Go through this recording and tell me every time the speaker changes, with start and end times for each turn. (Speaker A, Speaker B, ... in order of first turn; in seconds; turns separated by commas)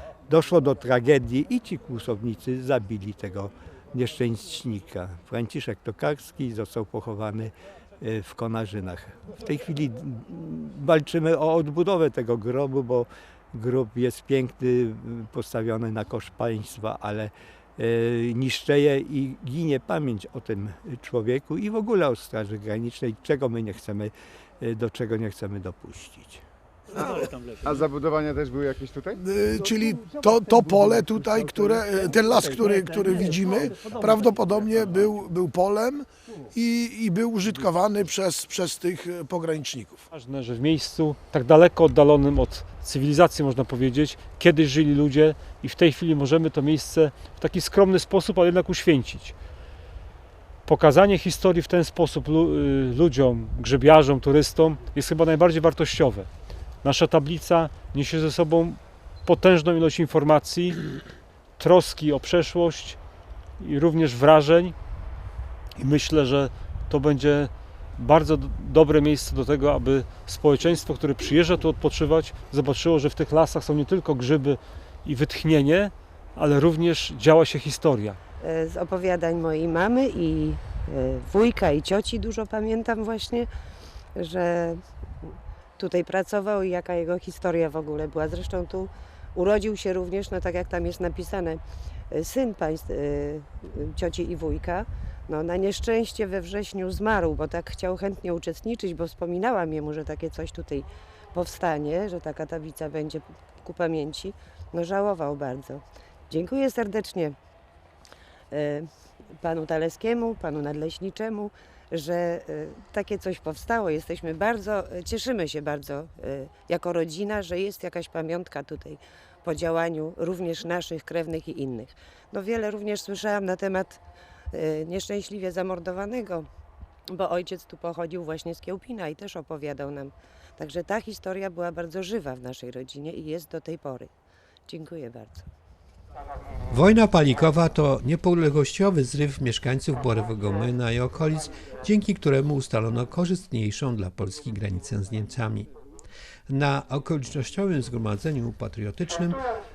Speaker A: 0.3-26.4, Speaker B: 26.9-29.2, Speaker C: 29.2-40.0, Speaker D: 40.1-49.4, Speaker D: 50.7-56.3, Speaker D: 56.8-60.9, Speaker D: 61.6-63.0, Speaker D: 63.6-64.8, Speaker D: 65.8-78.2, Speaker E: 78.4-83.5, Speaker E: 84.2-107.3, Speaker E: 108.5-108.9, Speaker E: 109.4-124.0, Speaker E: 124.5-126.5, Speaker E: 127.1-134.1, Speaker E: 134.7-135.5, Speaker F: 136.7-145.7, Speaker F: 146.5-149.4